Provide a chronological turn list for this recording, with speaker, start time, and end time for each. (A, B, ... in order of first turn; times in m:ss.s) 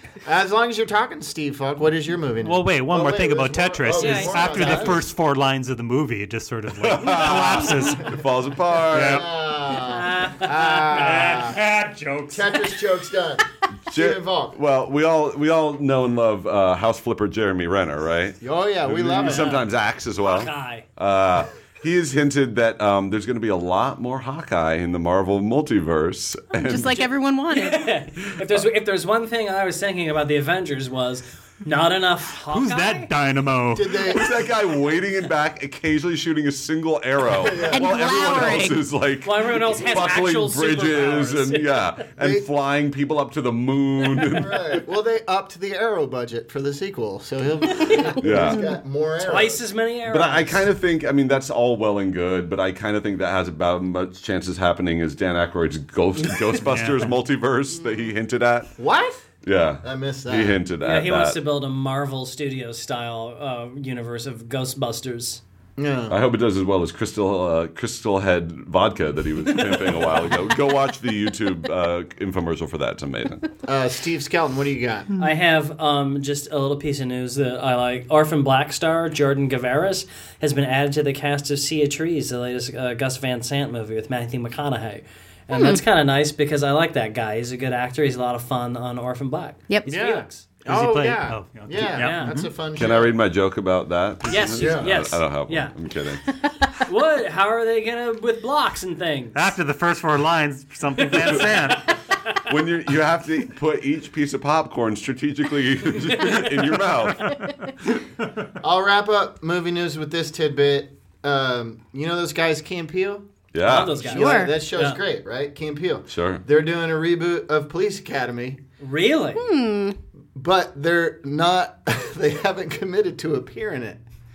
0:00.2-0:05.0 A
0:02.4-0:08.2 B
0:03.9-0:05.0 C
0:06.7-0:09.3 D
0:08.9-0:09.3 B
0:08.9-0:11.6 A
0:09.8-0:11.5 C
0:10.9-0:12.7 B
0:12.3-0:14.6 A
0:13.9-0:27.1 D
0:18.4-0:19.6 A
0:19.2-0:19.7 C
0:20.2-0:20.9 C
0:26.6-0:27.9 E
0:27.5-0:33.1 C
0:32.5-0:34.1 B
0:33.7-0:34.4 A
0:34.0-0:44.7 D
0:37.4-0:38.6 A
0:37.7-0:38.8 E
0:39.2-0:41.8 C
0:42.2-0:42.5 A
0:44.3-0:49.6 A
0:48.2-0:48.7 D
0:49.2-0:50.7 C
0:50.1-0:58.8 D
0:56.6-0:57.1 B
0:58.8-0:59.3 A
0:59.4-1:01.4 D
0:59.8-1:00.6 A
1:00.8-1:05.4 C
1:05.8-1:06.2 A
1:06.1-1:13.5 D
1:13.7-1:15.1 A
1:15.2-1:30.4 C
1:25.5-1:25.8 E
1:29.9-1:33.2 A
1:30.7-1:32.5 B
1:32.0-1:32.4 C
1:32.7-1:36.2 D
1:34.3-1:35.7 C
1:34.6-1:35.0 A
1:36.8-1:39.4 C
1:39.3-1:41.9 B
1:42.5-1:47.5 D
1:46.1-1:47.3 C
1:48.6-1:53.3 A
1:53.5-1:54.1 D
1:53.6-1:55.0 C
1:54.0-1:58.6 A
1:54.2-1:54.5 E
1:56.1-1:56.4 D
1:58.8-1:59.4 C
1:59.4-2:00.0 E
2:00.4-2:04.0 A